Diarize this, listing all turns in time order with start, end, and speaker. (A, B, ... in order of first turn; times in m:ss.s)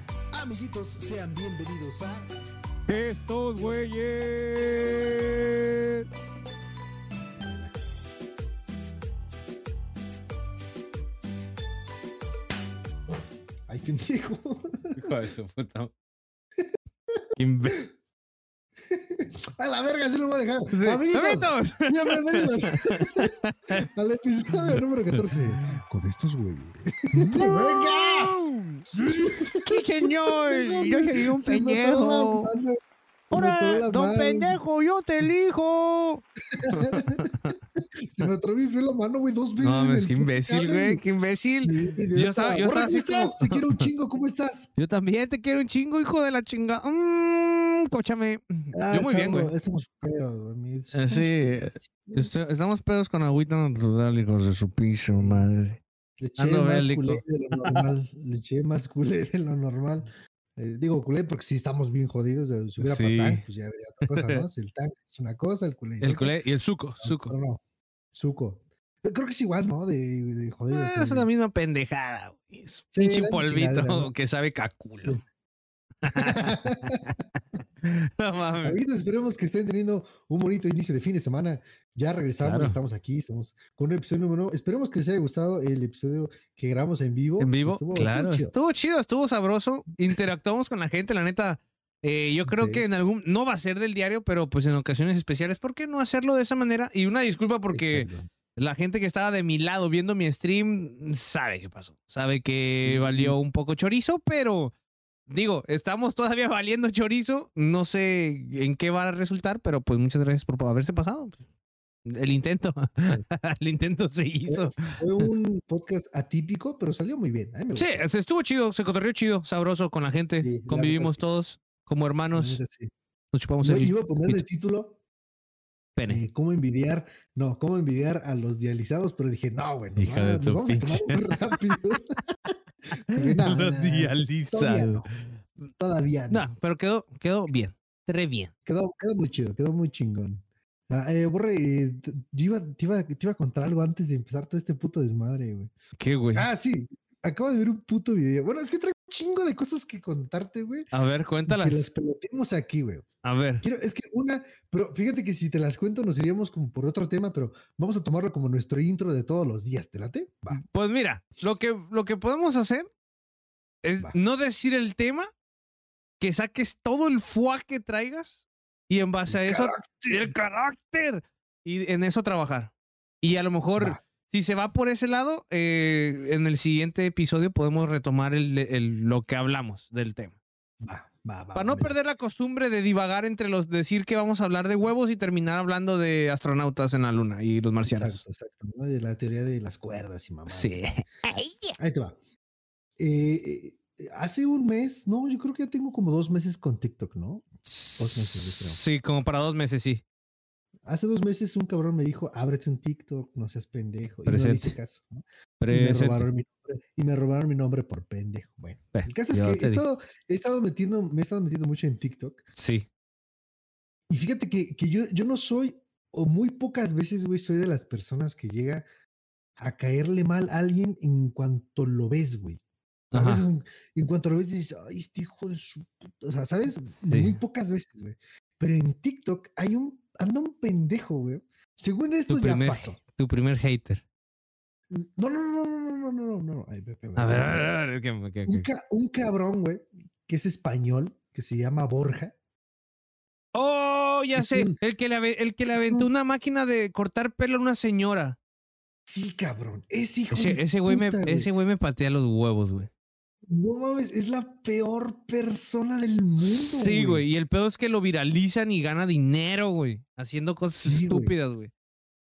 0:00.3-0:02.2 A
0:02.9-0:06.0 B
0:13.7-0:15.1 A
0:15.0-0:15.9 B
0:17.4-0:17.8 B
0:18.9-0:28.3 A
0:20.7-0:23.8 B
0:25.2-0:25.6 B
0:27.1-0:28.9 B
0:28.9-0:32.8 A
0:29.5-0:32.5 B
0:33.3-0:37.5 B
0:33.3-0:34.6 A
0:36.5-0:41.0 A
0:39.6-0:43.8 B
0:41.6-0:44.7 A
0:44.8-0:49.5 B
0:48.7-0:52.3 A
0:50.9-0:55.8 B
0:55.2-0:55.4 A
0:56.2-1:06.3 A
0:56.4-0:57.8 B
1:02.8-1:03.4 B
1:04.1-1:04.4 B
1:06.0-1:07.3 B
1:07.0-1:07.6 A
1:08.1-1:11.3 A
1:10.7-1:15.2 B
1:12.9-1:14.1 A
1:16.0-1:17.2 B
1:16.2-1:17.0 A
1:17.8-1:18.8 B
1:18.6-1:28.5 A
1:22.4-1:22.8 B
1:27.4-1:44.7 B
1:32.5-1:32.8 A
1:37.7-1:38.3 A
1:42.8-1:43.4 A
1:45.3-1:51.4 B
1:52.0-1:55.3 B
1:54.5-1:58.0 A
1:57.7-2:02.6 B
2:00.4-2:01.2 A
2:02.3-2:02.9 A
2:03.3-2:04.4 B
2:03.6-2:05.0 A
2:06.0-2:06.2 B
2:06.1-2:12.5 A
2:10.0-2:11.6 B
2:13.1-2:15.4 B
2:13.1-2:15.1 A
2:15.8-2:16.4 A
2:16.3-2:18.5 B
2:18.6-2:25.7 A
2:26.0-2:26.5 B
2:26.3-2:30.9 A
2:30.9-2:31.9 B
2:31.5-2:33.0 A
2:33.2-2:33.6 B
2:33.6-2:40.6 A
2:40.5-2:42.9 B
2:43.8-2:45.3 B
2:46.2-2:48.3 B
2:48.9-3:00.3 B
2:49.3-2:50.3 A
3:00.8-3:01.9 A
3:01.5-3:08.2 B
3:07.8-3:11.0 A
3:10.5-3:11.8 B
3:11.8-3:12.2 A
3:13.0-3:17.4 A
3:17.6-3:20.0 B
3:18.0-3:18.8 A
3:20.8-3:32.4 A
3:24.2-3:24.8 B
3:25.6-3:26.2 B
3:28.9-3:29.8 B
3:32.6-3:32.8 B
3:34.1-3:38.8 A
3:39.6-3:42.6 A
3:43.1-3:43.4 B
3:43.1-3:53.0 A
3:46.9-3:47.4 B
3:52.3-3:54.0 B
3:54.9-3:57.7 A
3:57.2-3:58.7 B
3:58.4-4:02.3 A
4:03.5-4:08.4 B
4:04.4-4:04.8 A
4:05.7-4:06.1 A
4:09.1-4:11.5 A
4:10.3-4:12.9 B
4:13.5-4:17.2 A
4:16.4-4:21.7 B
4:20.8-4:21.3 A